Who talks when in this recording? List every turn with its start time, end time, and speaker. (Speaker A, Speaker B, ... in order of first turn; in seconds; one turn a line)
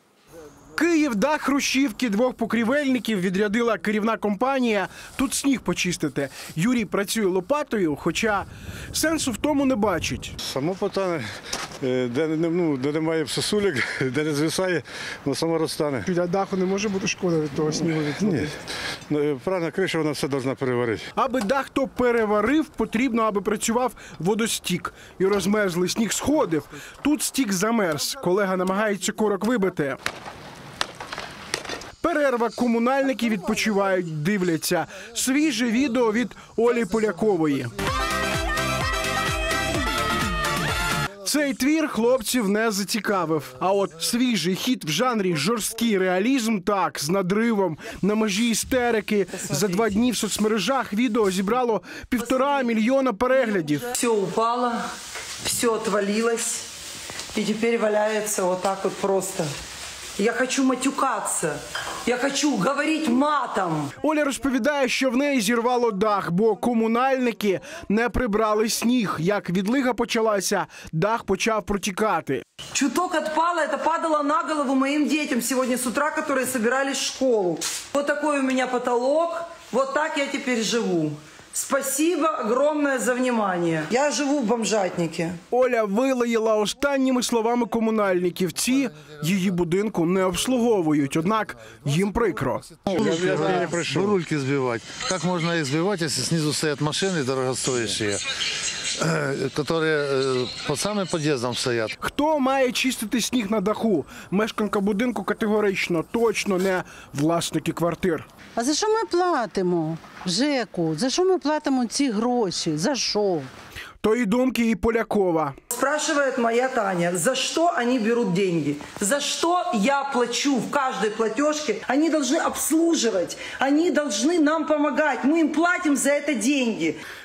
Speaker A: 0.8-10.3
Speaker B: 10.4-11.3
Speaker B: 11.8-16.1
Speaker A: 16.1-18.5
Speaker B: 18.2-18.5
Speaker B: 19.1-21.1
Speaker A: 21.2-30.0
Speaker A: 32.0-37.7
Speaker A: 41.2-53.9
Speaker C: 49.3-49.9
Speaker C: 52.2-54.8
Speaker C: 55.4-56.7
Speaker C: 57.4-59.5
Speaker C: 60.2-63.9
Speaker A: 64.0-72.5
Speaker C: 72.7-85.4
Speaker A: 85.5-92.9
Speaker D: 92.9-98.2
Speaker B: 92.9-94.2
Speaker D: 99.0-101.9
Speaker A: 102.0-108.3
Speaker E: 108.6-113.5
Speaker A: 114.0-115.6
Speaker C: 115.7-127.0